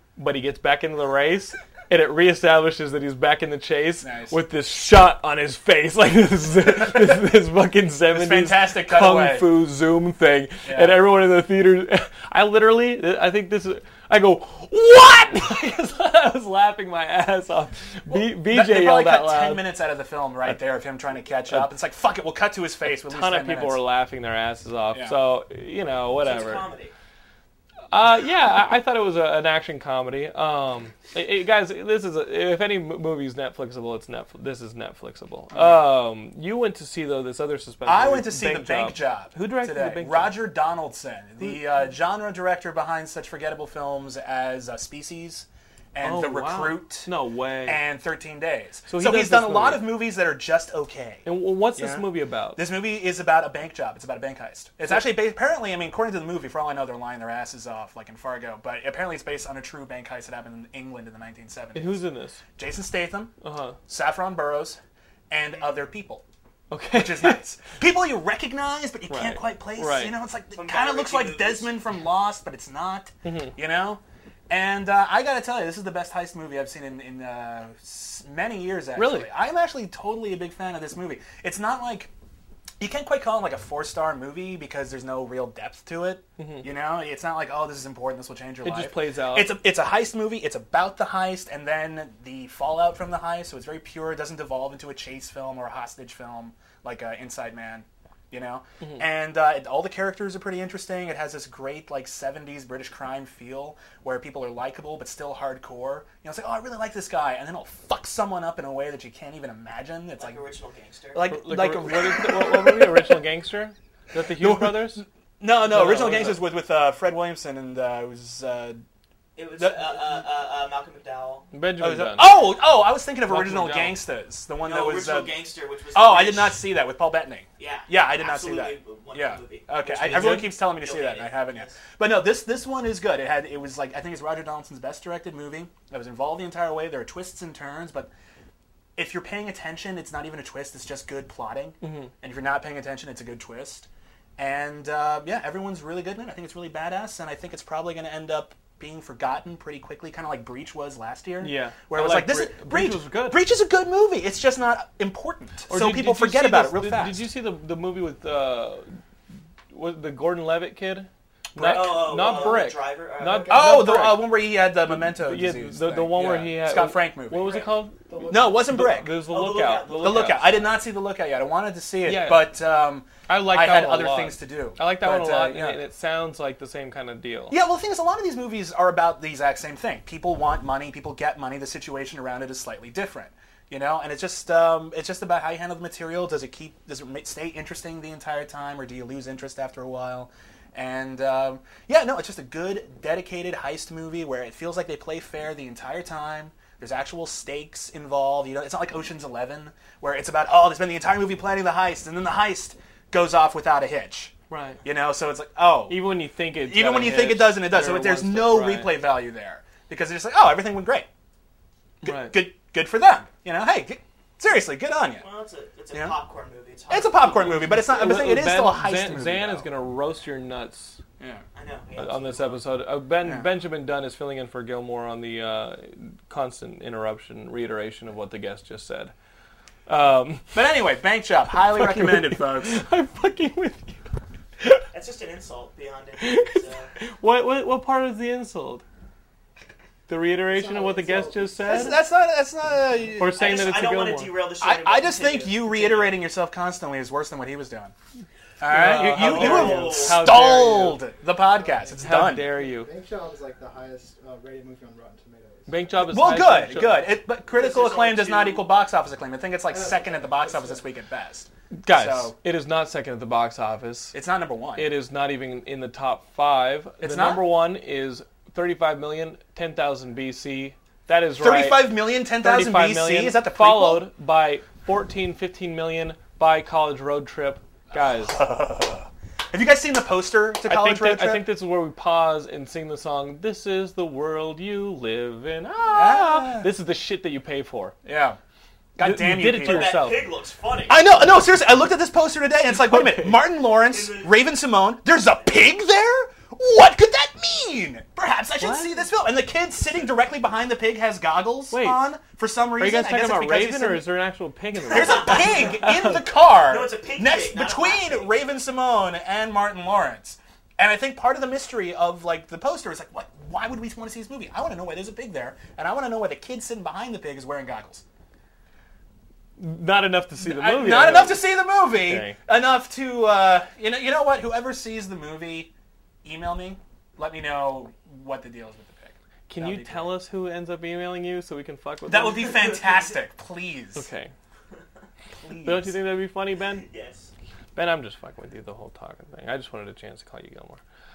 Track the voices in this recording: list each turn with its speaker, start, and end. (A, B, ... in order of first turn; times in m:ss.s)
0:00.2-0:19.7 A
0:04.0-0:04.4 B
0:06.7-0:07.2 B
0:08.1-0:09.5 B
0:10.7-0:11.1 B
0:18.1-0:23.8 B
0:22.9-0:26.7 A
0:24.9-0:25.2 B
0:26.2-0:26.9 C
0:27.9-0:40.4 A
0:37.9-0:47.1 B
0:46.0-0:47.8 A
0:47.7-1:02.0 B
0:48.9-0:49.9 A
0:51.2-0:52.6 A
1:01.8-1:02.4 A
1:02.6-1:03.3 B
1:03.4-1:03.8 A
1:03.9-1:06.2 B
1:06.7-1:07.4 A
1:06.9-1:22.1 B
1:09.1-1:10.2 A
1:10.5-1:11.7 C
1:13.2-1:13.6 A
1:19.0-1:19.3 A
1:22.8-1:50.4 B
1:26.4-1:26.7 A
1:28.6-1:29.6 A
1:50.2-1:51.2 C
1:51.1-1:53.2 B
1:51.3-1:55.0 A
1:54.3-1:58.8 B
1:55.7-1:56.4 A
1:59.4-2:01.5 C
1:59.6-2:00.2 B
2:01.5-2:02.4 A
2:01.8-2:05.3 B
2:03.3-2:04.0 A
2:04.6-2:06.6 C
2:05.9-2:18.1 B
2:07.6-2:11.8 C
2:10.1-2:10.4 A
2:19.0-2:37.2 B
2:21.8-2:22.1 A
2:31.4-2:33.4 A
2:35.7-2:39.0 A
2:39.7-2:44.4 A
2:41.5-2:42.3 B
2:41.6-2:43.6 C
2:43.5-2:47.6 B
2:44.9-2:50.5 A
2:48.1-2:48.5 D
2:48.3-2:49.1 B
2:49.3-2:50.7 C
2:50.0-2:55.8 B
2:52.0-2:52.5 A
2:53.3-2:57.6 A
2:57.5-3:26.0 B
3:24.5-3:24.8 A
3:25.9-3:29.0 A
3:26.6-3:31.1 B
3:32.0-3:35.2 B
3:32.0-3:32.4 A
3:35.2-3:37.8 C
3:36.9-3:39.7 B
3:37.5-3:41.0 A
3:41.6-3:42.7 C
3:42.0-3:49.1 A
3:43.2-3:43.5 B
3:49.9-3:50.6 A
3:50.5-3:52.8 B
3:51.6-3:54.8 A
3:54.9-3:56.9 C
3:56.2-3:58.8 A
4:00.1-4:02.0 A
4:00.5-4:01.8 D
4:01.6-4:03.4 B
4:03.2-4:04.3 A
4:03.4-4:06.2 C
4:04.6-4:07.9 B
4:08.6-4:12.5 B
4:08.6-4:11.0 A
4:09.1-4:10.3 C
4:11.6-4:16.0 D
4:11.9-4:12.9 A
4:15.7-4:17.1 A
4:16.0-4:22.4 B
4:17.5-4:18.6 C
4:19.7-4:20.9 D
4:21.8-4:24.2 A
4:24.1-4:24.9 B
4:24.8-4:38.4 A
4:27.0-4:27.5 B
4:31.4-4:34.1 B
4:38.0-4:41.5 B
4:40.6-4:48.0 A
4:45.9-4:46.7 B
4:48.0-4:48.4 B
4:49.0-4:50.0 B
4:49.0-4:50.2 A
4:49.6-4:51.0 C
4:50.9-5:04.1 B
4:52.8-4:53.4 A
4:53.9-4:54.4 C
4:58.6-4:59.1 A
5:01.7-5:02.0 A
5:02.8-5:06.3 A
5:04.9-5:18.0 B
5:04.9-5:05.8 C
5:06.6-5:08.4 C
5:19.6-5:22.4 A
5:20.4-5:25.7 B
5:26.2-5:30.2 B
5:29.5-5:32.7 A
5:32.1-5:34.1 B
5:34.0-5:34.3 A
5:35.3-5:36.0 B
5:35.6-5:36.9 A
5:36.8-5:37.3 C
5:37.8-5:40.8 A